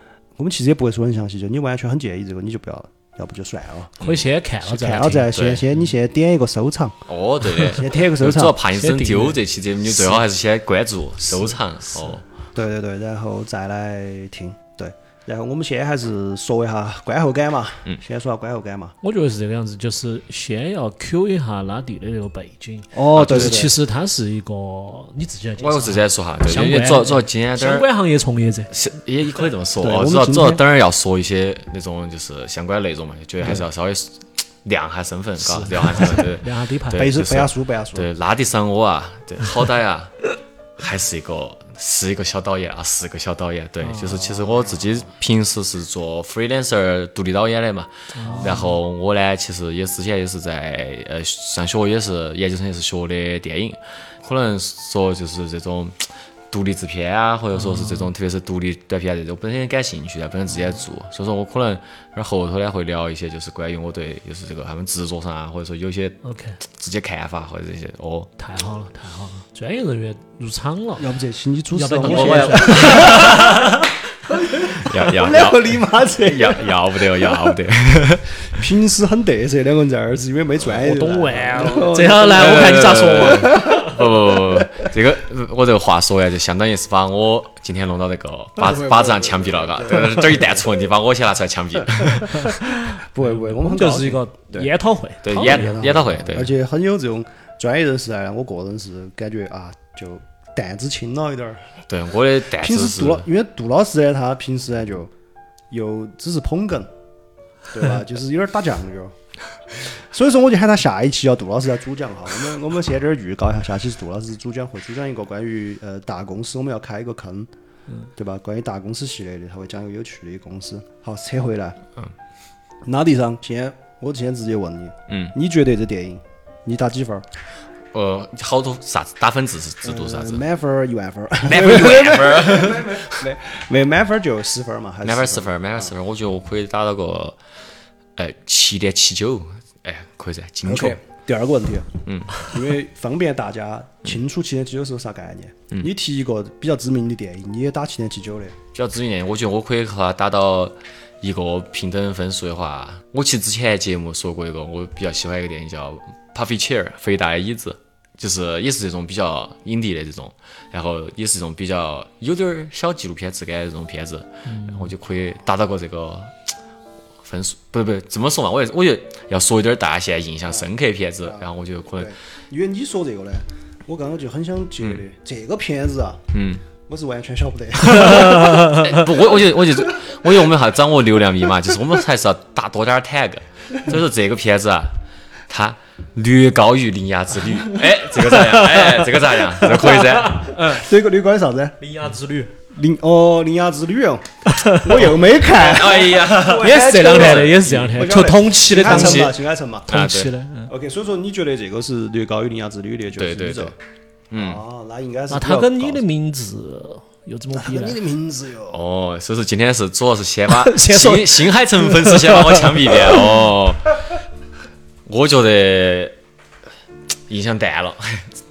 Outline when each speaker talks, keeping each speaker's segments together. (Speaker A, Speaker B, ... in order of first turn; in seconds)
Speaker A: 0.4-4.0, 4.6-7.0, 7.6-8.6, 12.5-18.9, 22.9-23.8, 29.8-30.6, 36.9-38.1, 44.0-45.1, 48.2-48.8, 71.0-73.8, 74.3-77.6, 78.4-84.9, 88.6-90.7, 92.0-94.7, 95.3-101.8, 102.5-105.1, 105.7-106.9, 107.7-109.2, 109.7-117.5, 118.2-121.8, 122.8-127.3, 129.8-135.9, 140.6-148.6, 171.2-178.7, 179.9-180.3, 190.5-191.8, 192.7-199.9, 200.7-203.8, 204.3-206.1, 207.5-208.8
Speaker B: 4.0-4.2, 5.3-5.7, 7.1-12.2, 23.1-23.7, 25.6-27.9, 28.7-68.3, 72.0-73.8, 74.6-78.7, 82.2-92.5, 95.2-96.5, 101.9-103.3, 125.1-125.3, 127.9-130.4, 131.4-133.3, 135.0-137.4, 138.2-141.0, 142.1-142.5, 148.7-166.6, 167.2-172.2, 176.3-176.6, 178.0-185.0, 185.5-190.6, 194.9-197.7, 198.8-199.3, 199.9-200.4, 203.2-203.8, 204.3-204.6, 208.7-214.1, 215.1-216.2, 217.3-218.4
Speaker C: 4.0-5.3, 7.4-7.8, 8.8-9.4, 11.3-12.2, 19.0-28.7, 35.4-37.1, 43.8-44.2, 48.1-48.8, 57.5-58.1, 66.2-66.6, 68.4-71.1, 71.7-74.5, 80.8-84.0, 92.3-96.0, 164.4-164.9, 177.9-179.0, 188.2-190.9, 191.8-192.5, 194.5-195.0, 196.3-200.7, 205.3-208.0, 210.5-213.4